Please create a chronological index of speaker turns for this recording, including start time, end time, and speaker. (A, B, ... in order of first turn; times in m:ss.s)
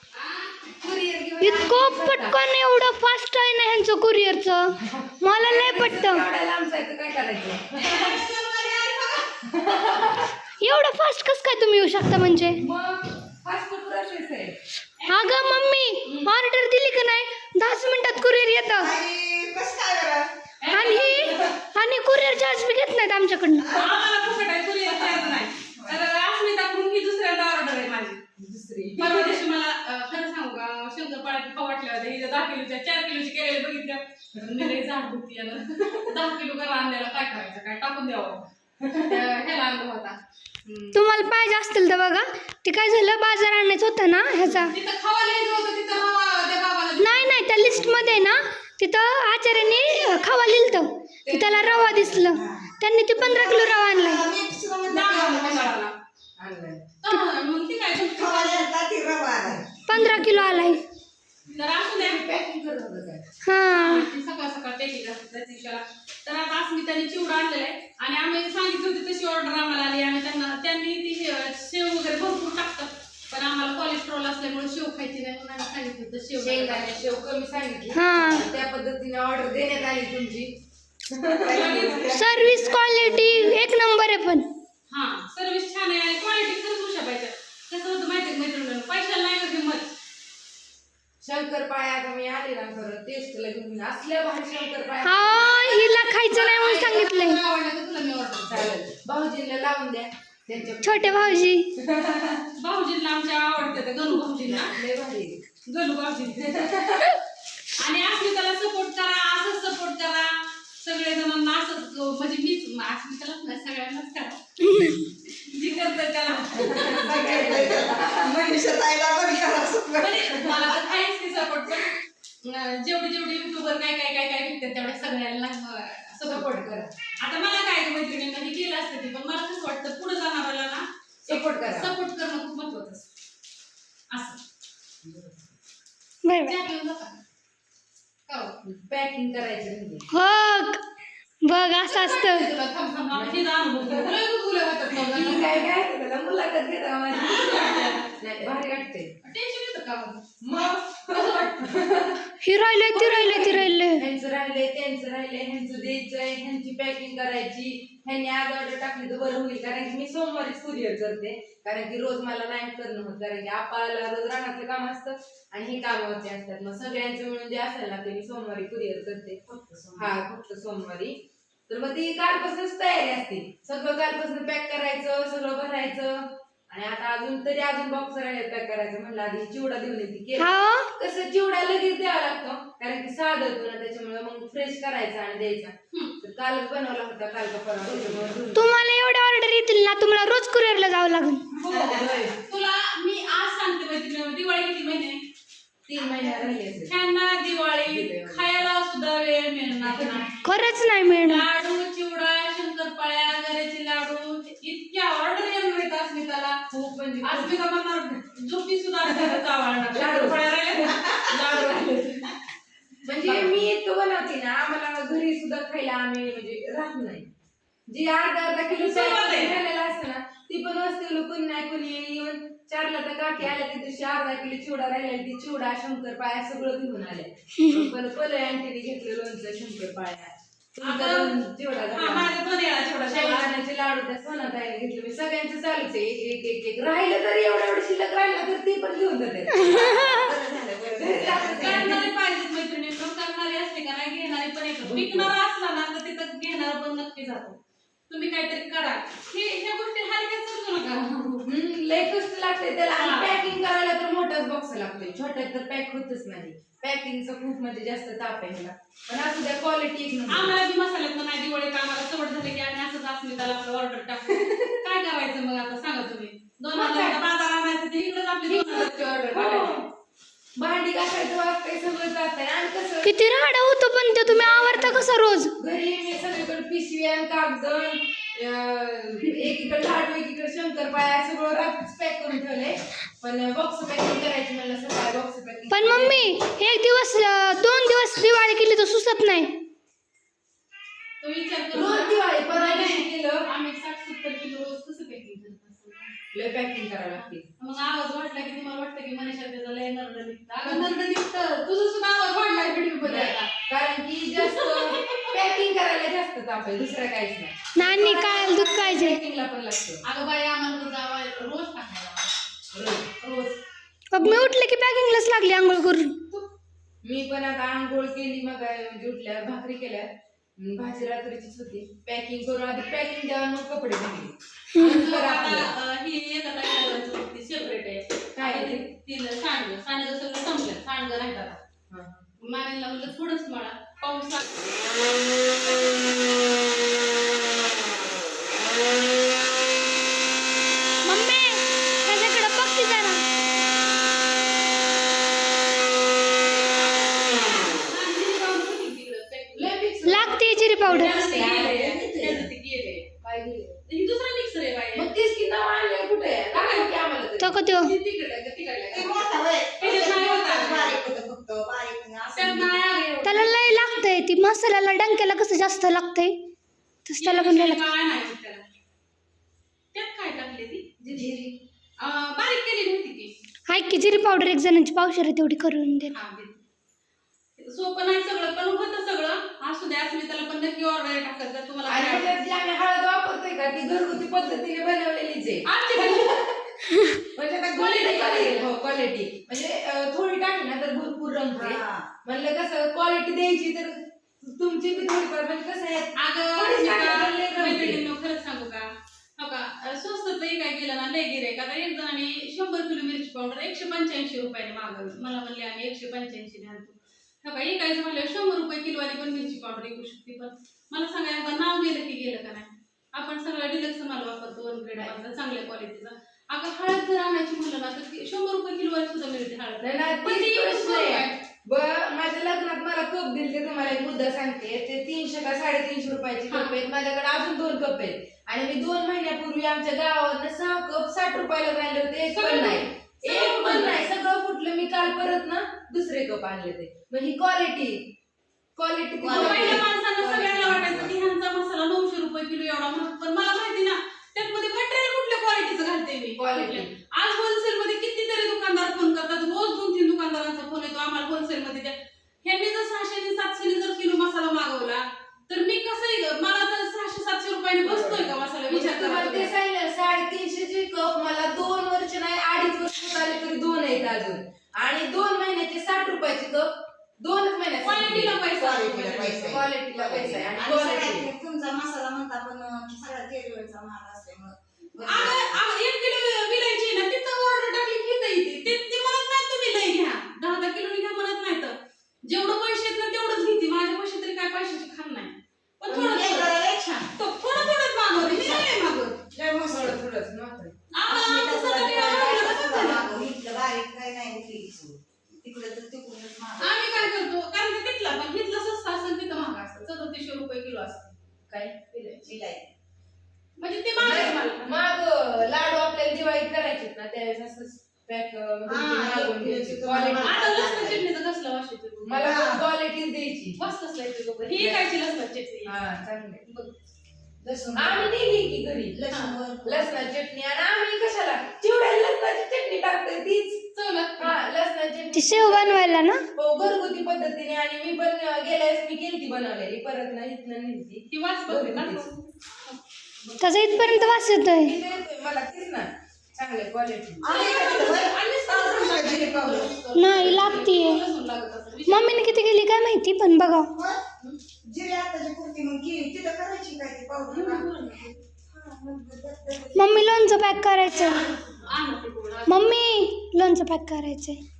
0:00.1-0:00.5 A
0:00.7-0:02.4 B
0:01.4-0:06.2 C
0:04.8-0:08.2 B
0:07.8-0:09.3 A
0:09.4-0:10.3 B
0:10.6-0:12.6 C
0:12.6-0:14.5 B
0:15.0-0:15.5 A
0:15.1-0:18.9 C
0:16.0-0:16.3 A
0:18.8-0:20.3 D
0:20.6-0:21.6 A
0:20.7-0:23.8 C
0:23.6-0:23.9 D
0:23.7-0:28.2 A
0:28.4-0:29.4 B
0:29.0-0:38.4 A
0:38.8-0:39.1 B
0:39.0-0:40.9 A
0:40.9-0:44.8 C
0:44.7-0:47.5 A
0:47.0-0:54.2 C
0:51.2-0:52.3 B
0:52.3-0:55.7 D
0:54.9-0:55.9 A
0:56.4-0:56.9 B
0:57.0-0:58.7 A
0:58.2-0:59.7 D
0:59.9-1:00.8 C
0:59.9-1:00.6 A
1:01.5-1:02.2 A
1:01.9-1:03.2 B
1:03.4-1:04.1 C
1:03.7-1:17.2 A
1:16.4-1:20.5 B
1:17.9-1:18.5 C
1:21.1-1:22.0 B
1:21.4-1:23.0 D
1:21.5-1:22.1 A
1:22.1-1:24.5 C
1:23.1-1:23.6 B
1:24.9-1:29.9 A
1:31.2-1:35.7 B
1:35.0-1:37.4 C
1:35.6-1:38.7 A
1:38.5-1:42.4 B
1:40.8-1:41.7 C
1:42.6-1:44.7 A
1:44.4-1:45.4 B
1:45.6-1:46.5 A
1:46.4-1:47.2 B
1:47.8-1:57.2 A
1:56.4-1:58.3 B
1:57.0-2:00.8 D
2:00.0-2:06.7 A
2:06.2-2:06.9 B
2:07.2-2:13.1 A
2:11.3-2:11.9 B
2:14.1-2:14.4 A
2:15.0-2:15.4 B
2:16.2-2:16.6 C
2:16.4-2:17.2 A
2:18.3-2:18.5 A
2:18.6-2:20.0 B
2:20.1-2:20.8 C
2:21.4-2:22.5 C
2:21.8-2:25.6 A
2:23.1-2:24.2 B
2:24.9-2:29.1 B
2:27.1-2:28.1 A
2:29.2-2:30.2 A
2:30.4-2:32.3 B
2:31.1-2:31.5 A
2:32.4-2:34.0 C
2:32.9-2:33.6 A
2:33.1-2:49.4 B
2:49.5-2:50.1 D
2:49.9-2:51.1 B
2:51.7-3:08.7 B
3:00.4-3:00.9 C
3:08.5-3:11.4 C
3:11.6-3:15.2 A
3:11.7-3:12.0 D
3:11.8-3:12.4 B
3:15.8-3:16.9 B
3:16.0-3:16.5 D
3:16.9-3:20.6 A
3:17.8-3:18.6 B
3:19.8-3:20.2 B
3:20.4-3:21.4 C
3:21.2-3:26.6 A
3:26.7-3:27.6 B
3:27.2-3:32.3 A
3:29.1-3:29.4 B
3:29.9-3:31.7 B
3:33.0-3:37.3 B
3:33.2-3:33.6 A
3:37.9-3:52.3 B
3:38.7-3:39.6 A
3:47.6-3:47.8 C
3:50.8-3:51.4 A
3:51.9-3:53.5 A
3:53.1-4:00.2 B
3:59.6-4:01.9 D
3:59.7-4:00.2 C
4:01.0-4:02.0 B
4:01.6-4:07.6 A
4:04.8-4:05.3 B
4:08.1-4:11.5 A
4:11.4-4:20.5 B
4:12.9-4:13.4 A
4:20.3-4:24.3 A
4:24.3-4:24.8 B
4:24.8-4:29.7 A
4:26.7-4:27.2 B
4:28.5-4:29.9 B
4:30.6-4:33.2 B
4:33.0-4:35.5 C
4:34.2-4:46.3 B
4:45.7-4:49.6 C
4:51.2-4:56.2 A
4:51.7-4:53.5 B
4:56.3-4:57.4 B
4:57.6-5:03.5 A
5:03.0-5:10.0 B
5:04.4-5:05.5 A
5:07.8-5:09.2 C
5:10.0-5:12.3 A
5:12.7-5:13.1 B
5:13.2-5:13.5 A
5:14.1-5:16.1 C
5:17.0-5:20.1 B
5:20.6-5:25.7 B
5:24.8-5:31.6 A
5:28.3-5:28.9 B
5:31.9-5:32.2 B
5:32.4-5:34.8 A
5:41.0-5:43.2 C
5:47.3-5:49.7 A
5:49.5-5:52.0 B
5:50.0-5:51.1 C
5:50.9-5:53.1 A
5:51.5-5:52.4 D
5:53.2-5:53.8 B
5:53.9-5:55.1 A
5:54.9-5:57.5 B
5:56.5-5:56.9 A
5:57.4-5:57.9 C
5:57.8-6:01.0 A
5:58.9-6:02.7 D
6:02.3-6:03.8 A
6:03.2-6:06.4 C
6:07.0-6:07.8 C
6:07.2-6:08.6 A
6:09.9-6:10.8 A
6:11.0-6:11.5 B
6:12.0-6:13.3 A
6:13.7-6:16.1 C
6:16.1-6:16.6 A
6:17.6-6:22.3 A
6:21.9-6:26.5 B
6:25.6-6:26.4 A
6:27.2-6:38.0 B
6:27.7-6:28.6 A
6:31.5-6:32.1 D
6:36.2-7:01.4 A
6:59.8-7:18.0 B
7:06.5-7:06.7 A
7:12.3-7:14.0 A
7:18.8-7:19.8 B
7:19.2-7:21.2 D
7:19.2-7:39.5 A
7:26.4-7:26.9 B
7:37.8-7:46.7 B
7:47.2-7:48.4 B
7:47.8-7:49.4 A
7:48.5-7:55.6 D
7:49.4-7:51.3 B
7:55.0-8:06.6 A
8:05.9-8:07.1 D
8:07.2-8:09.2 A
8:08.2-8:08.7 D
8:09.3-8:10.0 D
8:09.7-8:10.7 B
8:10.9-8:13.1 A
8:11.1-8:16.9 D
8:16.6-8:21.1 A
8:21.5-8:21.7 B
8:21.9-8:22.3 A
8:22.2-8:22.7 D
8:23.6-8:24.7 A
8:24.0-8:30.5 B
8:28.7-8:31.0 D
8:30.2-8:32.4 A
8:32.0-8:33.6 B
8:32.2-8:32.6 D
8:33.6-8:35.7 A
8:34.6-8:34.8 B
8:35.6-8:36.4 B
8:36.4-8:36.7 A
8:37.4-8:38.1 D
8:37.8-8:39.0 B
8:38.9-8:40.0 D
8:39.1-8:39.3 A
8:39.6-8:43.6 B
8:43.7-8:44.4 A
8:44.2-8:52.1 B
8:45.1-8:46.2 C
8:51.1-8:53.9 A
8:53.4-8:54.7 C
8:53.8-8:57.2 B
8:57.2-8:59.7 D
8:57.2-9:02.4 A
8:59.9-9:01.0 C
9:01.9-9:03.7 C
9:03.7-9:04.0 D
9:04.6-9:07.7 D
9:07.3-9:08.2 A
9:08.5-9:10.5 D
9:09.7-9:11.2 C
9:10.8-9:13.0 A
9:12.5-9:14.4 C